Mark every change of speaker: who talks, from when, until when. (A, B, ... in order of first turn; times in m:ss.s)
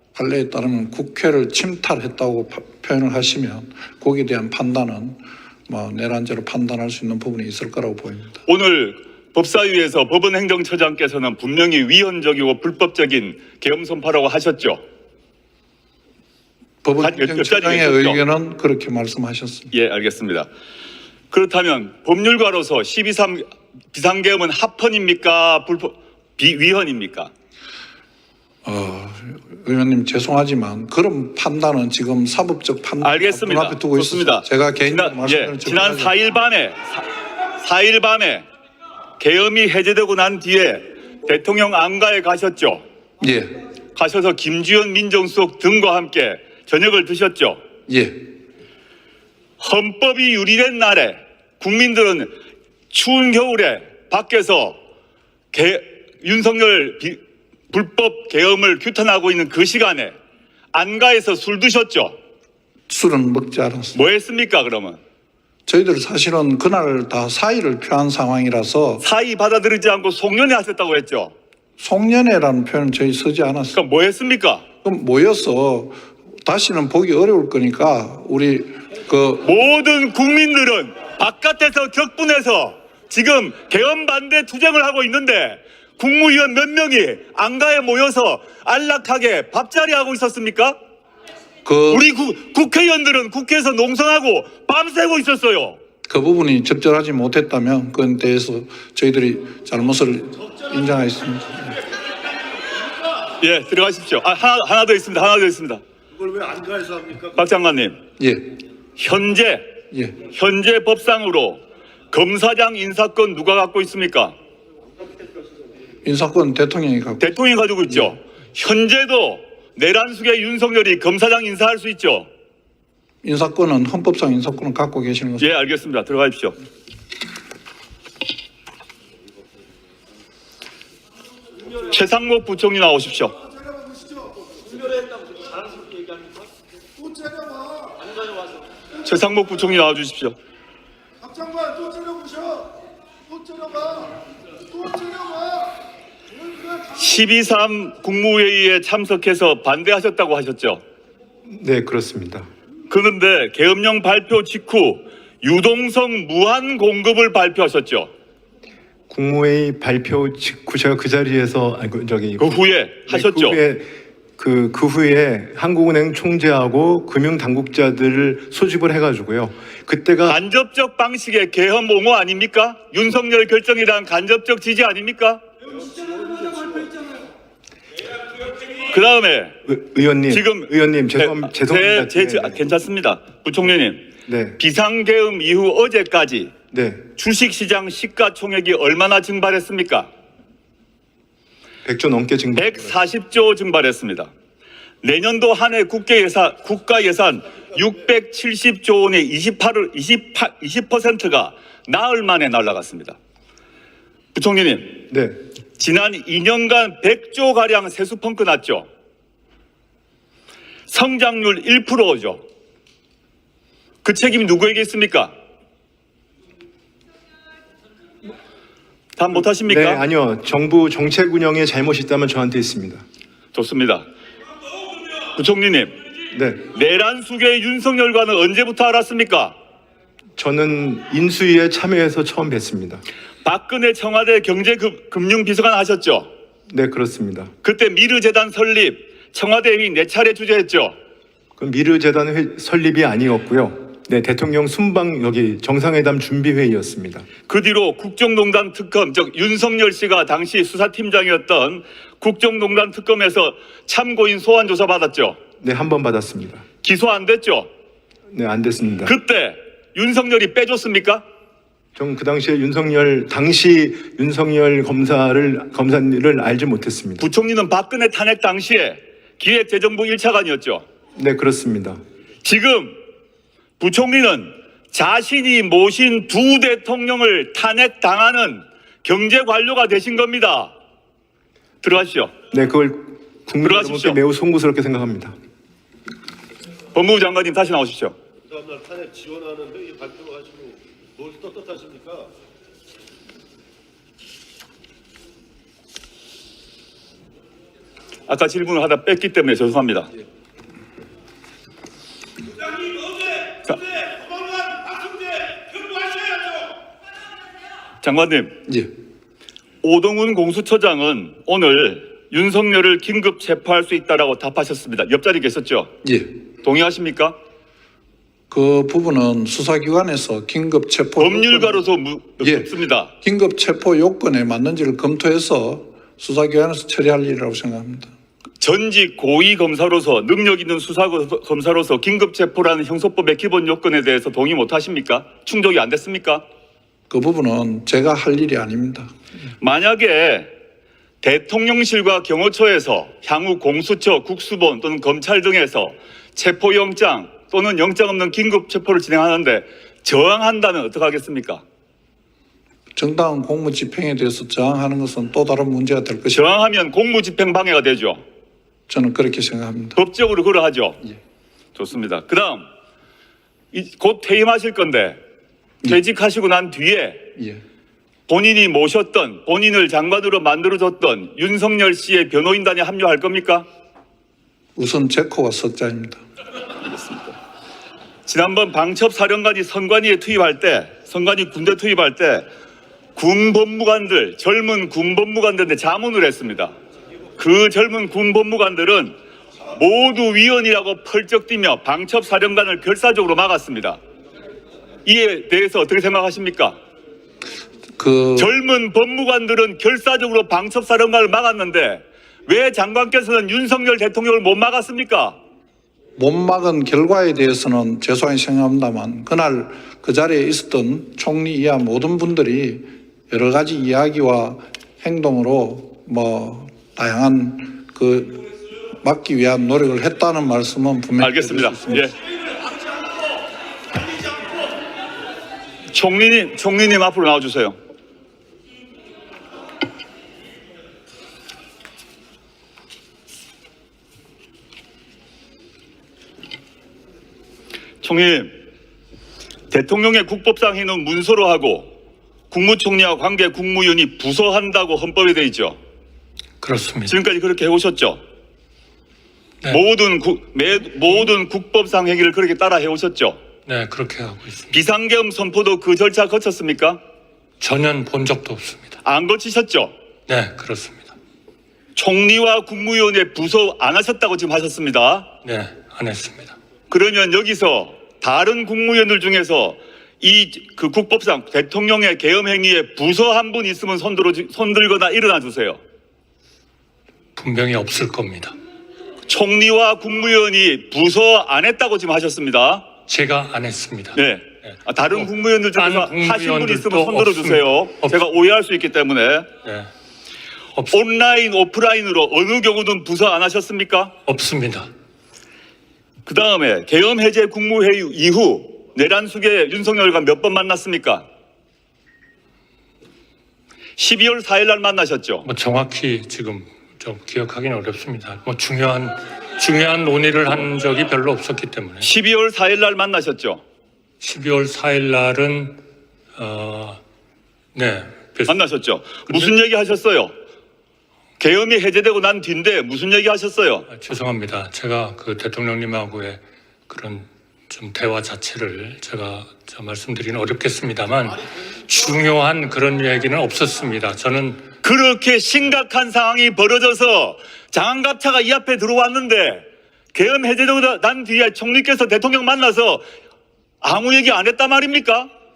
0:00.2-0:08.4 A
0:08.4-0:14.8 B
0:16.8-0:19.7 A
0:17.0-0:18.2 B
0:19.7-0:20.5 B
0:21.3-0:27.3 B
0:28.6-0:36.2 A
0:33.0-0:37.0 B
0:37.6-0:38.4 B
0:39.2-0:42.8 B
0:43.2-0:43.6 A
0:43.9-0:47.6 B
0:47.9-0:48.2 A
0:49.6-0:52.4 B
0:52.9-0:54.8 B
0:55.5-1:00.1 B
1:00.7-1:02.2 B
1:02.9-1:04.0 A
1:03.9-1:05.0 B
1:05.6-1:09.0 A
1:09.0-1:11.3 B
1:11.8-1:13.8 A
1:13.7-1:14.6 B
1:14.8-1:19.5 A
1:19.4-1:30.8 B
1:31.6-1:32.1 A
1:31.9-1:35.8 B
1:36.1-1:41.8 A
1:43.3-1:45.8 B
1:46.5-1:47.0 C
1:47.2-1:48.0 B
1:49.0-1:49.7 B
1:50.2-1:54.3 B
1:56.0-1:57.3 A
1:57.2-2:02.3 B
2:03.2-2:05.5 A
2:05.4-2:06.6 B
2:11.9-2:13.4 B
2:19.0-2:20.4 B
2:26.9-2:30.8 B
2:31.4-2:32.5 D
2:32.9-2:38.1 B
2:39.1-2:50.4 D
2:42.4-2:43.6 B
2:50.2-2:55.4 B
2:58.7-2:59.6 B
2:59.6-3:02.6 D
3:00.3-3:06.5 B
3:04.2-3:04.6 D
3:06.7-3:07.1 D
3:07.2-3:10.1 B
3:11.8-3:12.9 D
3:12.6-3:14.3 B
3:15.0-3:23.2 B
3:24.3-3:25.0 B
3:25.1-3:25.4 D
3:25.8-3:28.9 B
3:30.9-3:32.4 B
3:34.0-3:35.3 B
3:39.2-3:40.0 B
3:39.6-3:43.0 D
3:43.5-3:44.0 B
3:45.3-3:45.9 B
3:46.3-3:46.6 D
3:46.7-3:49.5 B
3:50.4-3:53.0 D
3:53.4-3:56.3 B
3:56.7-3:57.5 D
3:57.6-4:01.0 B
4:01.6-4:07.3 D
4:07.5-4:15.4 B
4:15.6-4:16.6 D
4:16.8-4:17.7 B
4:18.3-4:19.1 D
4:19.0-4:21.2 B
4:21.9-4:27.2 D
4:27.2-4:30.8 B
4:31.2-4:32.0 D
4:32.4-4:33.0 B
4:33.8-4:40.7 B
4:41.8-4:42.3 B
4:42.5-4:45.3 D
4:43.6-4:44.2 B
4:46.9-4:48.2 B
4:48.5-4:52.3 C
4:58.3-5:00.1 B
5:08.0-5:08.6 B
5:09.8-5:15.9 B
5:16.6-5:17.4 B
5:18.5-5:21.9 A
5:21.2-5:23.1 B
5:22.4-5:22.7 A
5:23.2-5:28.1 A
5:28.6-5:36.4 B
5:37.1-5:39.1 A
5:39.6-5:40.5 B
5:41.2-5:51.6 B
5:53.0-5:56.5 A
5:56.3-5:58.2 B
5:58.9-6:00.0 A
6:00.0-6:01.0 B
6:01.7-6:02.7 B
6:03.7-6:05.2 B
6:05.8-6:07.3 B
6:08.3-6:13.7 B
6:14.8-6:16.2 A
6:16.8-6:17.3 B
6:18.2-6:22.5 B
6:23.1-6:26.7 B
6:27.4-6:29.2 B
6:29.7-6:34.0 B
6:35.0-6:36.8 B
6:38.0-6:38.5 A
6:38.4-6:45.4 B
6:46.2-6:58.4 A
6:59.0-7:02.1 A
7:01.2-7:02.1 B
7:05.9-7:07.8 B
7:18.0-7:18.5 B
7:19.7-7:21.9 B
7:22.5-7:25.8 B
7:26.6-7:27.1 E
7:27.1-7:28.2 B
7:29.7-7:33.4 B
7:33.6-7:34.7 E
7:34.7-7:37.0 B
7:37.6-7:39.0 E
7:39.0-7:39.9 B
7:40.3-7:41.1 E
7:41.9-7:45.3 B
7:45.4-7:46.6 E
7:46.9-7:55.8 B
7:57.4-7:58.6 E
7:59.3-8:02.9 B
8:03.1-8:08.3 E
8:04.2-8:09.5 B
8:09.6-8:09.9 E
8:10.9-8:14.1 B
8:14.2-8:14.9 E
8:16.2-8:21.2 B
8:24.0-8:25.5 B
8:25.4-8:32.1 E
8:32.0-8:33.6 B
8:34.2-8:35.8 E
8:36.3-8:37.0 E
8:37.7-8:38.6 E
8:38.5-8:40.3 B
8:41.4-8:43.9 B
8:43.9-8:54.7 E
8:54.8-9:03.0 B
9:03.8-9:05.3 B